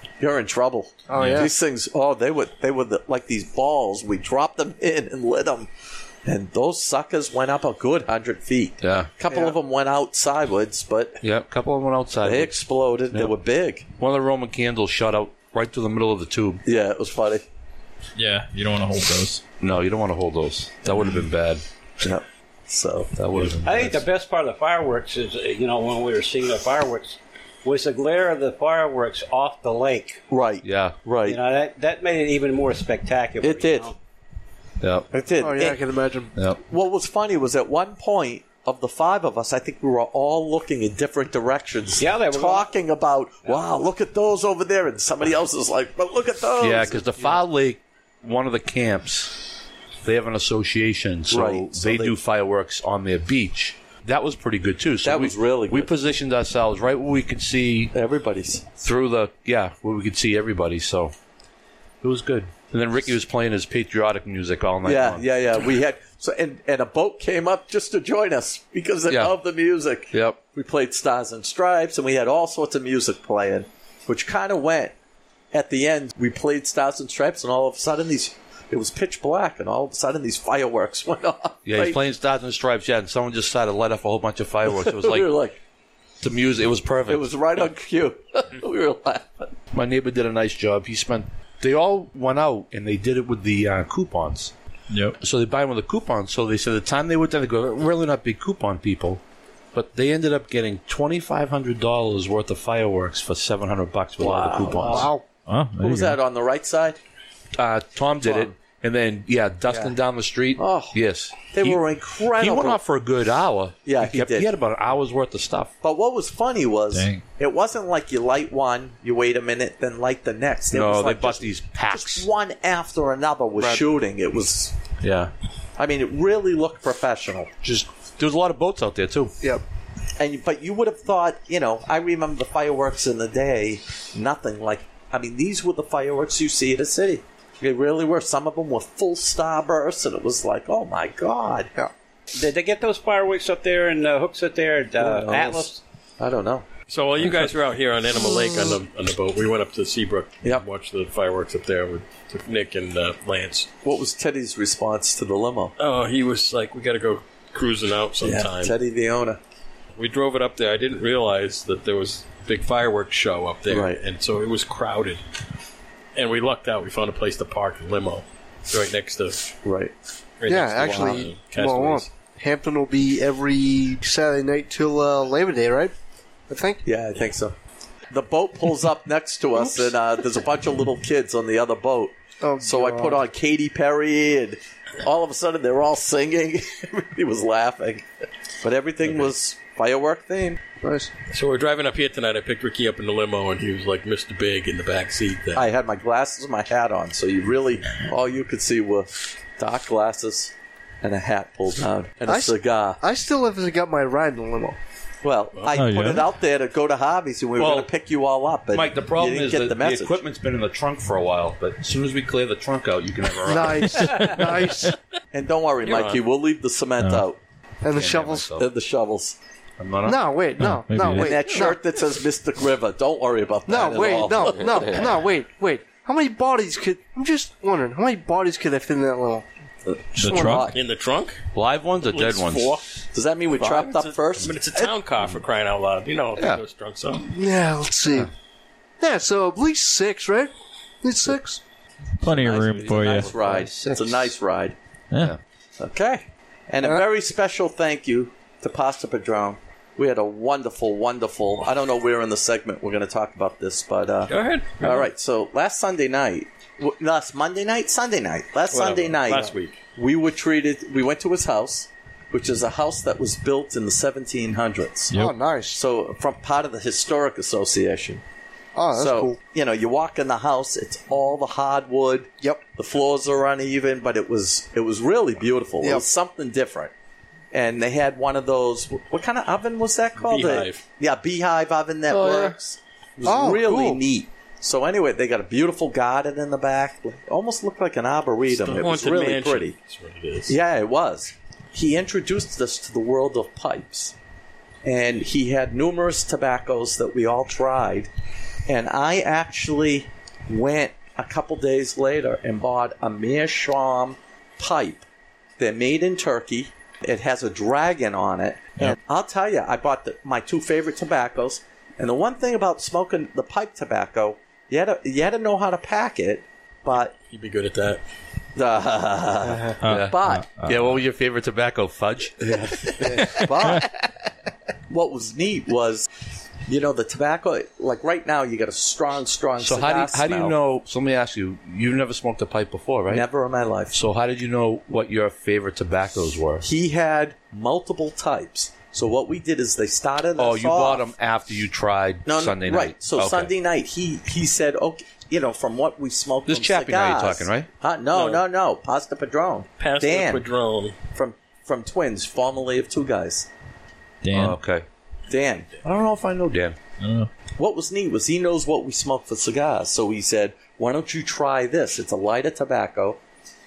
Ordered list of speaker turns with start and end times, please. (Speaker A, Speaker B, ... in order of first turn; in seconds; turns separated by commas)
Speaker A: 0.2-5.7, Speaker B: 1.1-1.5, Speaker C: 1.2-1.5, Speaker A: 6.2-11.2, Speaker D: 8.8-9.1, Speaker B: 9.3-9.6, Speaker D: 11.2-12.6, Speaker A: 12.2-13.8, Speaker D: 14.0-16.6, Speaker A: 16.6-17.4, Speaker C: 18.1-19.4, Speaker D: 19.6-21.6, Speaker A: 22.0-23.1, Speaker D: 23.1-24.0, Speaker E: 23.6-30.2, Speaker A: 30.3-31.4, Speaker D: 30.6-31.0, Speaker E: 31.2-34.0, Speaker A: 33.4-33.9, Speaker D: 34.8-35.1, Speaker A: 35.1-35.8, Speaker B: 35.4-36.3, Speaker A: 36.6-47.4, Speaker E: 42.0-42.7, Speaker D: 46.6-49.4, Speaker D: 50.0-57.9, Speaker A: 51.3-52.2, Speaker A: 55.0-55.9, Speaker A: 57.9-58.6, Speaker D: 58.8-61.1, Speaker D: 62.0-65.3, Speaker A: 64.8-74.9, Speaker D: 69.1-69.3, Speaker D: 70.1-70.4, Speaker A: 75.5-82.0, Speaker D: 81.7-85.3, Speaker A: 84.7-85.6, Speaker D: 86.2-87.3, Speaker A: 87.1-89.5, Speaker D: 89.7-94.5, Speaker C: 94.9-95.2, Speaker D: 95.2-99.2, Speaker D: 99.7-105.1, Speaker A: 104.2-105.1, Speaker B: 104.8-105.2, Speaker C: 105.5-106.2, Speaker A: 105.8-107.0, Speaker D: 107.6-115.7, Speaker A: 108.2-108.5, Speaker A: 109.7-109.9, Speaker A: 110.6-112.8, Speaker A: 113.8-114.5, Speaker A: 115.8-124.7, Speaker C: 116.9-117.2, Speaker D: 120.7-122.3, Speaker D: 125.0-125.3, Speaker A: 125.8-127.5, Speaker D: 127.6-129.3, Speaker A: 130.2-141.7, Speaker E: 142.3-145.8, Speaker A: 145.0-146.7, Speaker F: 146.9-153.7, Speaker A: 153.8-155.7, Speaker F: 155.8-158.7, Speaker A: 158.2-159.4, Speaker F: 160.0-165.2, Speaker A: 163.7-164.0, Speaker F: 166.2-169.4, Speaker A: 169.6-169.9, Speaker F: 170.4-172.1, Speaker B: 170.5-175.9, Speaker A: 170.9-171.2, Speaker B: 176.5-176.8, Speaker A: 176.8-177.5, Speaker A: 178.1-188.1, Speaker B: 182.4-183.2, Speaker A: 188.6-190.6, Speaker B: 190.8-191.1, Speaker F: 191.3-195.6, Speaker A: 195.5-203.0, Speaker B: 202.3-204.8, Speaker A: 205.2-210.2, Speaker C: 205.7-206.3, Speaker D: 207.6-207.9, Speaker D: 208.7-214.3, Speaker B: 213.4-214.9, Speaker C: 214.0-214.9, Speaker A: 215.3-217.4, Speaker F: 215.8-216.2, Speaker B: 217.8-218.5, Speaker D: 217.9-218.7, Speaker A: 218.6-219.3, Speaker D: 219.8-220.2, Speaker B: 220.0-221.8, Speaker C: 220.6-221.5, Speaker A: 221.1-225.1, Speaker B: 223.7-229.4, Speaker A: 229.8-230.8, Speaker C: 230.2-230.7, Speaker B: 230.3-230.6, Speaker F: 230.7-231.4, Speaker D: 231.5-232.8, Speaker F: 232.0-232.8, Speaker A: 233.1-234.6, Speaker F: 233.5-237.3, Speaker D: 236.3-236.6, Speaker B: 237.3-238.3, Speaker B: 239.0-241.6, Speaker C: 242.2-243.4, Speaker A: 242.2-244.7, Speaker D: 243.2-244.3, Speaker C: 245.1-245.3, Speaker A: 245.8-265.1, Speaker F: 254.3-255.1, Speaker F: 258.7-259.8, Speaker B: 265.1-265.8, Speaker A: 265.7-268.2, Speaker B: 268.7-269.4, Speaker A: 268.9-276.9, Speaker A: 277.5-289.7, Speaker F: 280.2-280.8, Speaker D: 282.2-282.5, Speaker B: 283.2-284.0, Speaker F: 288.5-290.5, Speaker A: 290.5-294.1, Speaker A: 294.8-298.1, Speaker A: 298.7-305.1, Speaker A: 305.6-317.1, Speaker F: 316.9-318.0, Speaker A: 318.6-320.5, Speaker C: 319.8-320.9, Speaker D: 319.8-323.9, Speaker A: 322.4-323.9, Speaker A: 324.9-326.1, Speaker A: 326.7-330.6, Speaker D: 329.6-333.2, Speaker A: 333.1-333.9, Speaker D: 333.9-336.7, Speaker A: 336.6-341.1, Speaker D: 340.4-343.5, Speaker A: 342.2-350.4, Speaker D: 346.5-347.7, Speaker F: 348.1-348.4, Speaker F: 349.8-350.9, Speaker A: 351.1-353.5, Speaker C: 354.2-354.6, Speaker D: 354.3-354.8, Speaker A: 355.3-356.1, Speaker D: 355.8-356.8, Speaker C: 357.0-357.3, Speaker A: 357.6-363.2